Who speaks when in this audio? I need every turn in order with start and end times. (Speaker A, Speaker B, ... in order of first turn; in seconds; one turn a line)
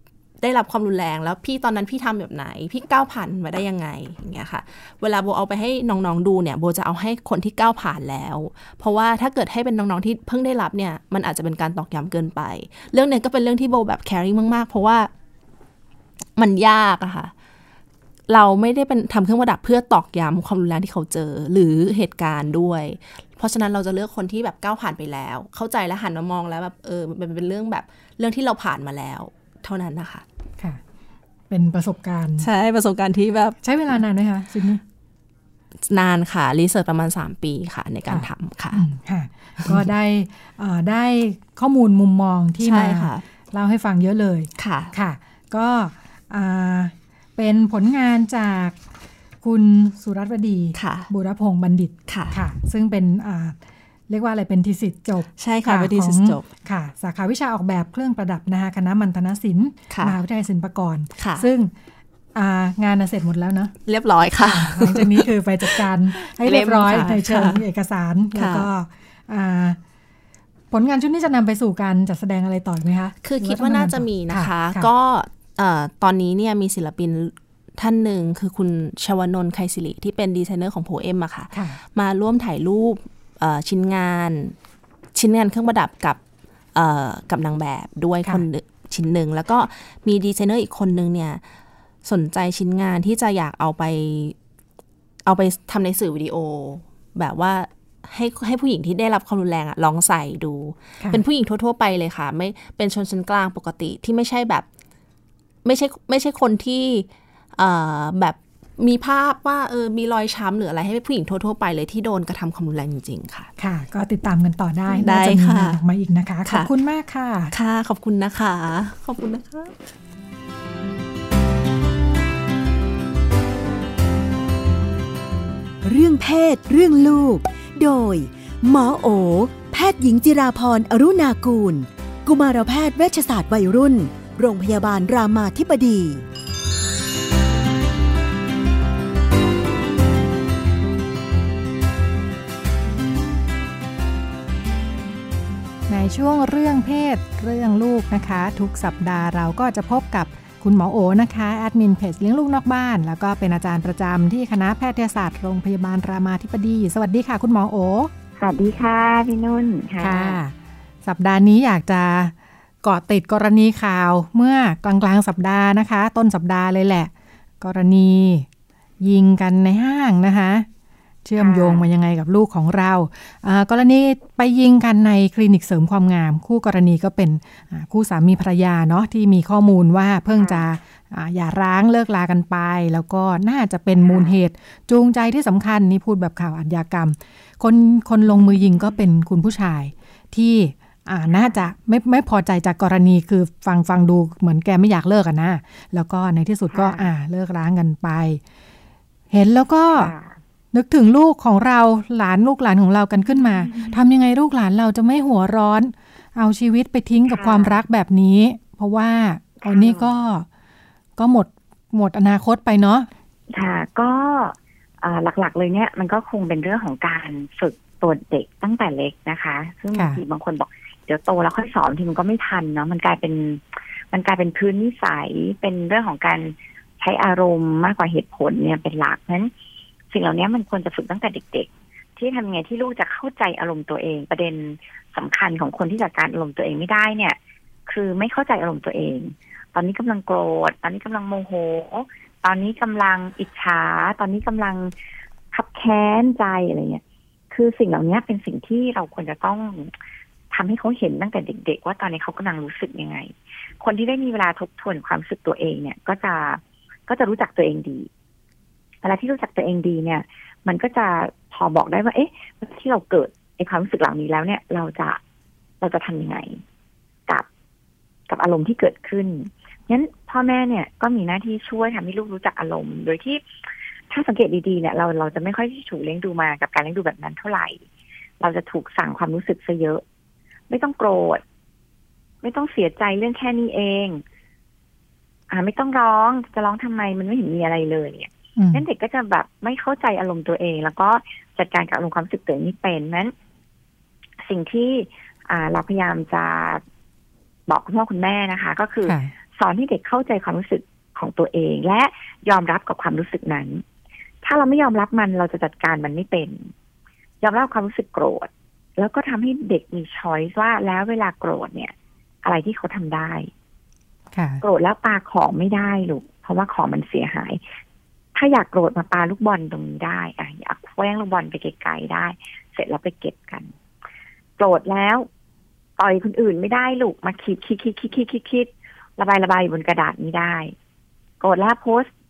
Speaker A: 0.4-15.1
Speaker A: 16.4-17.3
Speaker A: 18.3-30.2
Speaker B: 31.5-32.5
Speaker A: 32.4-33.6
Speaker B: 33.6-34.8
Speaker A: 35.9-38.8
Speaker B: 38.1-48.8
Speaker A: 42.6-43.2
Speaker A: 44.6-44.9
Speaker B: 49.4-53.5
Speaker A: 50.7-51.1
Speaker A: 52.1-52.4
Speaker B: 54.1-61.7
Speaker A: 55.4-56.5
Speaker A: 59.9-60.2
Speaker A: 61.2-61.5
Speaker B: 62.3-63.7
Speaker A: 63.9-67.6
Speaker B: 64.4-69.8
Speaker A: 68.3-68.7
Speaker B: 70.7-74.9
Speaker A: 73.2-84.5
Speaker B: 81.5-81.8
Speaker A: 85.1-86.2
Speaker A: 86.7-91.4
Speaker A: 92.0-94.3
Speaker A: 95.3-104.6
Speaker A: 105.6-113.5
Speaker B: 113.6-117.5
Speaker A: 114.9-115.8
Speaker A: 117.5-119.8
Speaker C: 125.8-136.2
Speaker B: 145.9-158.1
Speaker D: 158.4-160.4
Speaker B: 160.0-160.5
Speaker B: 161.1-168.4
Speaker B: 169.0-170.7
Speaker B: 171.2-198.4
Speaker D: 171.4-171.9
Speaker D: 180.4-180.6
Speaker D: 184.0-184.3
Speaker D: 188.3-188.6
Speaker D: 191.3-191.6
Speaker D: 196.7-197.1
Speaker B: 199.3-200.1
Speaker D: 199.9-200.3
Speaker B: 200.7-210.4
Speaker D: 203.3-204.0
Speaker D: 207.3-207.8
Speaker D: 209.6-210.2
Speaker B: 211.2-213.1
Speaker D: 213.5-229.5
Speaker B: 219.9-220.2
Speaker D: 230.1-244.9
Speaker D: 245.5-249.9
Speaker D: 250.5-258.1
Speaker D: 259.0-265.2
Speaker D: 265.8-266.6
Speaker D: 268.3-273.4
Speaker D: 274.1-277.8
Speaker D: 278.4-280.0
Speaker D: 280.7-281.4
Speaker D: 282.4-284.2
Speaker D: 285.5-293.3
Speaker B: 288.6-288.8
Speaker D: 294.4-296.8
Speaker D: 297.7-303.8
Speaker B: 299.0-299.3
Speaker D: 304.4-306.7
Speaker D: 307.4-311.9
Speaker D: 312.4-313.5
Speaker B: 314.3-314.6
Speaker D: 314.6-317.6
Speaker D: 318.3-323.7
Speaker D: 324.6-325.3
Speaker D: 326.0-330.7
Speaker D: 331.4-332.1